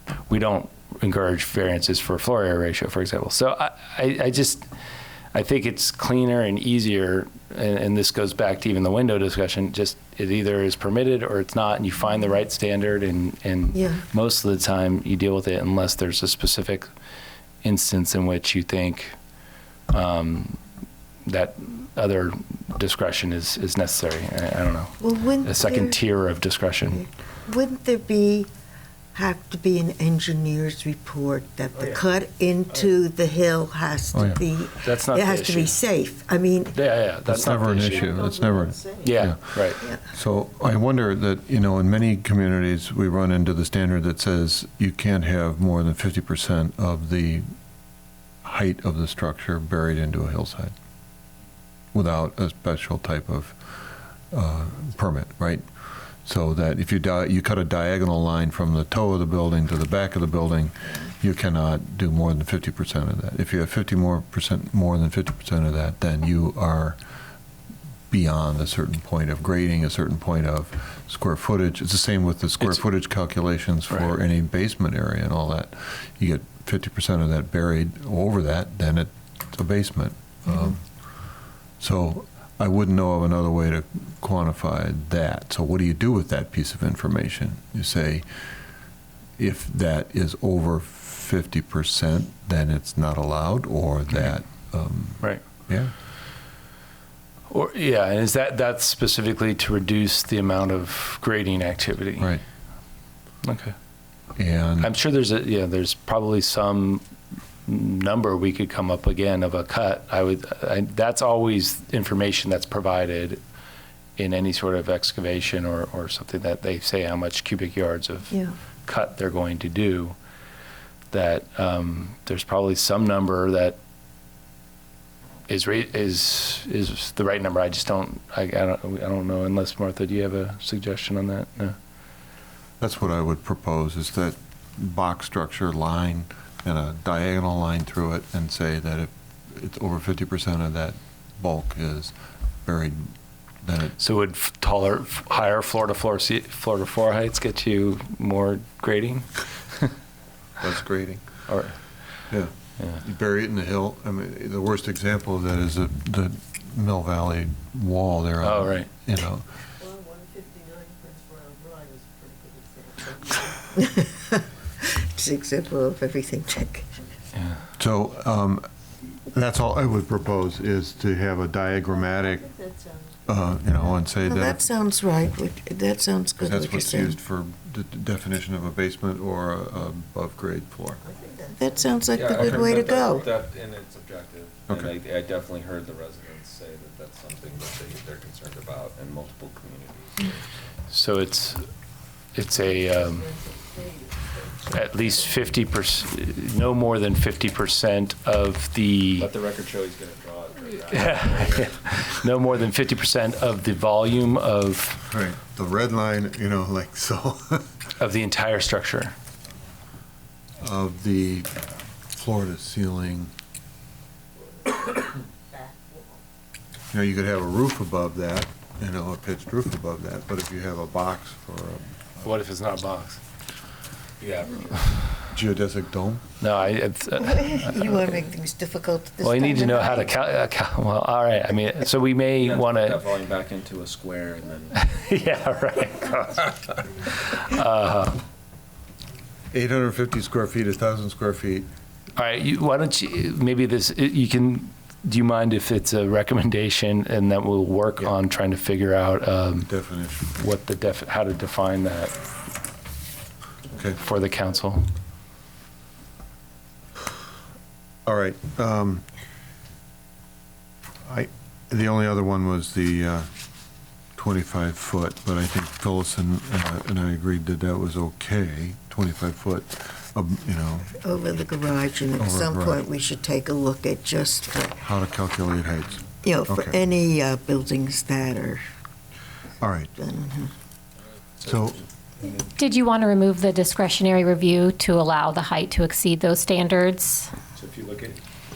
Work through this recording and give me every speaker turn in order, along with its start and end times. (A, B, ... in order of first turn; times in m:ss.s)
0:00.3-0:04.6 A
0:05.3-0:16.9 A
0:13.7-0:14.0 B
0:17.6-0:19.2 A
0:19.9-0:20.6 A
0:21.2-0:27.0 A
0:25.0-0:26.0 B
0:27.4-0:28.5 B
0:29.1-0:36.8 B
0:34.1-0:34.4 C
0:34.8-0:35.8 A
0:36.7-0:38.1 A
0:37.2-0:47.4 C
0:38.2-0:38.7 D
0:39.0-0:39.8 A
0:48.4-0:50.7 C
0:51.9-0:53.8 C
0:54.3-0:55.6 C
0:56.2-1:07.0 C
1:08.1-1:20.8 C
1:21.8-1:28.4 C
1:29.4-1:35.9 C
1:37.5-1:42.3 A
1:43.4-1:43.7 A
1:44.4-1:44.9 C
1:44.8-1:47.0 A
1:47.6-1:53.4 A
1:54.2-2:00.2 A
2:01.1-2:03.8 A
2:05.5-2:11.8 A
2:12.8-2:24.0 C
2:24.0-2:29.9 A
2:30.6-2:31.2 C
2:31.5-2:31.8 A
2:32.3-2:39.5 C
2:38.4-2:38.9 A
2:39.9-2:40.6 D
2:42.3-2:43.4 D
2:43.8-2:47.0 B
2:47.4-2:47.6 A
2:47.8-2:48.6 C
2:49.3-2:52.5 C
2:52.0-2:52.7 D
2:53.2-2:54.7 C
2:54.2-2:57.2 B
2:56.4-3:01.0 C
3:01.0-3:01.9 D
3:01.6-3:03.3 B
3:02.1-3:10.4 E
3:02.3-3:02.7 C
3:10.9-3:11.6 A
3:12.3-3:13.3 A
3:13.2-3:13.9 D
3:14.7-3:19.3 A
3:19.2-3:21.7 E
3:20.9-3:25.0 A
3:25.1-3:27.8 C
3:28.0-3:29.1 A
3:30.6-3:31.6 C
3:32.1-3:33.3 C
3:35.6-3:36.1 D
3:36.9-3:42.3 C
3:42.2-3:43.2 A
3:44.2-3:45.1 E
3:45.3-3:46.2 C
3:46.4-3:48.0 A
3:47.2-3:50.1 B
3:49.2-3:53.0 A
3:52.4-3:54.8 E
3:54.7-3:58.2 A
3:59.5-4:01.7 C
4:02.2-4:09.7 A
4:09.6-4:10.3 C
4:10.3-4:12.2 A
4:13.7-4:14.0 C
4:14.0-4:14.9 A
4:18.0-4:19.0 C
4:21.0-4:23.3 C
4:24.1-4:31.0 C
4:31.0-4:34.8 B
4:32.2-4:32.8 C
4:34.8-4:36.8 C
4:36.2-4:38.6 B
4:39.6-4:39.9 C
4:39.9-4:40.5 B
4:41.4-4:41.8 C
4:42.2-4:47.3 F
4:47.6-4:48.2 A